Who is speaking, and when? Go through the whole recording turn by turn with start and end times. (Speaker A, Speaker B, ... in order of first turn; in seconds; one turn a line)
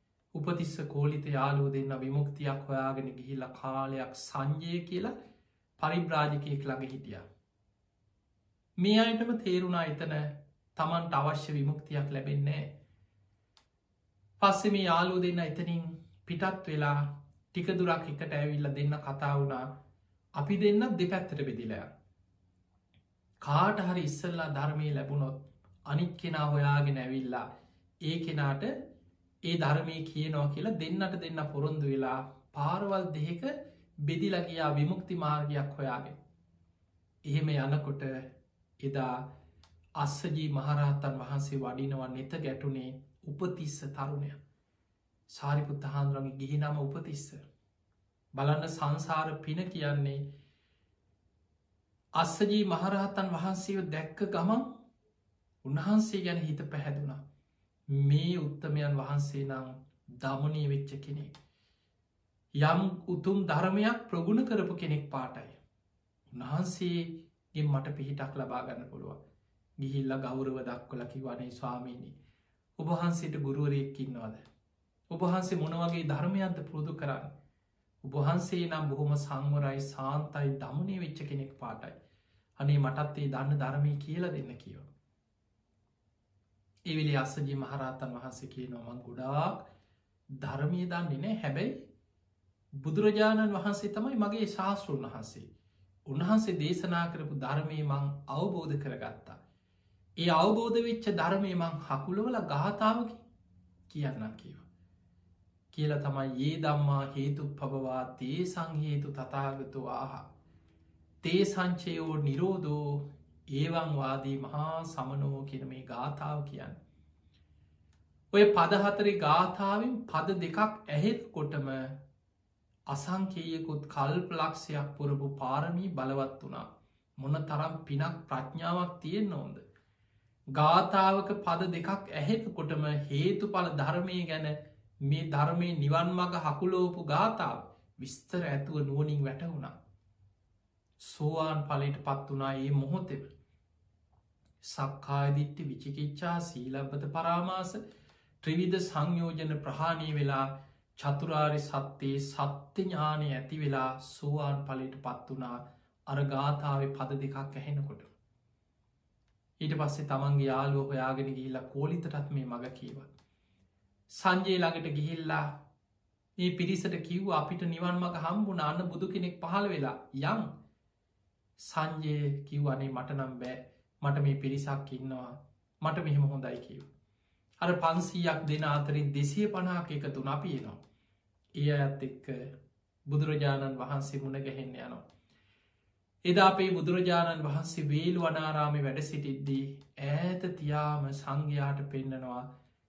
Speaker A: 0.3-5.1
Speaker A: 5.8-7.2
Speaker A: 8.8-12.7
Speaker A: 14.4-19.7
Speaker A: 20.4-21.9
Speaker A: 23.4-27.4
Speaker A: 28.0-28.7
Speaker A: 29.4-36.1
Speaker A: 37.2-39.3
Speaker A: 40.0-44.4
Speaker A: 45.3-47.4
Speaker A: 48.3-50.2
Speaker A: 52.1-54.7
Speaker A: 55.6-57.2
Speaker A: 57.9-61.3
Speaker A: 62.6-65.5
Speaker A: 66.3-69.2
Speaker A: 69.8-72.1
Speaker A: 72.8-74.4
Speaker A: 75.1-77.3
Speaker A: 78.0-81.9
Speaker A: 82.6-84.8
Speaker A: 86.9-89.7
Speaker A: 90.4-91.7
Speaker A: 92.8-95.5
Speaker A: 96.1-99.4
Speaker A: 100.2-103.2
Speaker A: 103.9-104.6
Speaker A: 105.7-110.3
Speaker A: 111.2-116.8
Speaker A: 118.3-122.0
Speaker A: 122.9-126.7
Speaker A: 127.2-129.6
Speaker A: 130.5-134.5
Speaker A: 135.0-139.8
Speaker A: 141.0-143.3
Speaker A: 144.6-147.8
Speaker A: 148.4-158.1
Speaker A: 159.6-163.1
Speaker A: 164.1-165.5
Speaker A: 166.4-170.5
Speaker A: 171.6-176.9
Speaker A: 177.6-180.8
Speaker A: 181.6-182.5
Speaker A: 183.1-185.0
Speaker A: 186.2-192.5